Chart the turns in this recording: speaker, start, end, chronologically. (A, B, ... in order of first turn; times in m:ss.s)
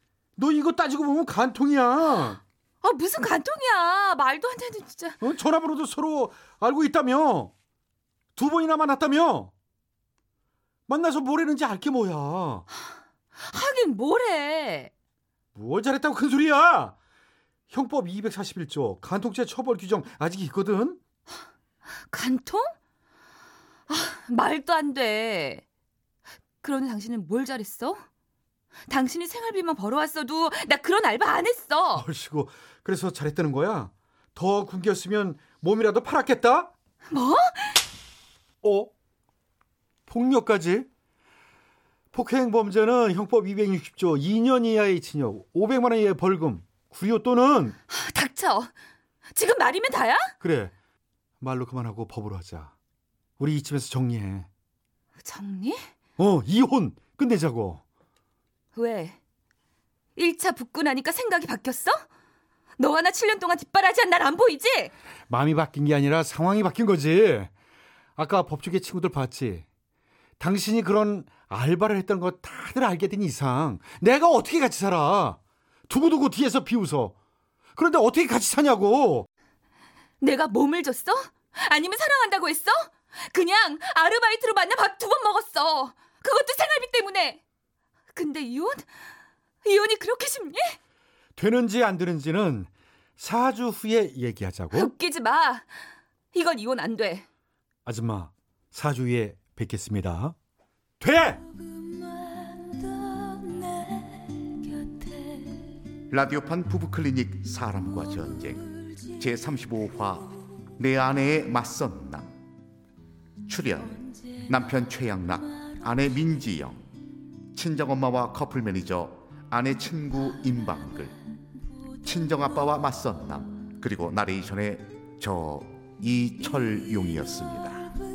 0:00.4-0:02.4 A
0:02.8-0:05.2 B
0:05.2-0:07.5 A
0:08.4-0:09.5 A
0:10.9-0:12.6 A
0:13.4-0:14.9 B
0:15.5-0:16.9 A
0:17.7-0:21.0 A
0:22.1-0:22.7 B
0:23.9-0:25.6 B
0:26.6-0:28.0 B
0:28.9-0:32.1 B
0:32.0-0:36.7 A
0:37.1-0:37.8 B
0:38.6-0:38.9 A
0:40.1-0:40.9 A
0:42.1-0:47.8 A
0:47.9-0:48.7 B
0:49.3-0:50.3 B
0:50.4-0:50.7 A
0:51.4-0:52.7 A
0:53.4-0:54.5 A
0:55.2-0:55.9 B
0:56.2-0:57.8 A
0:58.7-0:59.2 B
1:00.2-1:02.0 B
1:02.8-1:04.9 B
1:05.3-1:07.5 A
1:08.2-1:09.6 A
1:10.4-1:15.4 A
1:15.9-1:17.1 A
1:17.8-1:19.3 A
1:20.2-1:27.4 B
1:28.1-1:28.9 B
1:29.6-1:30.8 B
1:31.4-1:34.8 A
1:34.7-1:35.7 B
1:36.3-1:37.3 B
1:37.8-1:40.3 A
1:41.0-1:41.4 A
1:42.2-1:45.5 B
1:46.1-1:52.4 C
1:53.4-1:56.9 C
1:57.5-2:01.2 C
2:02.0-2:07.9 C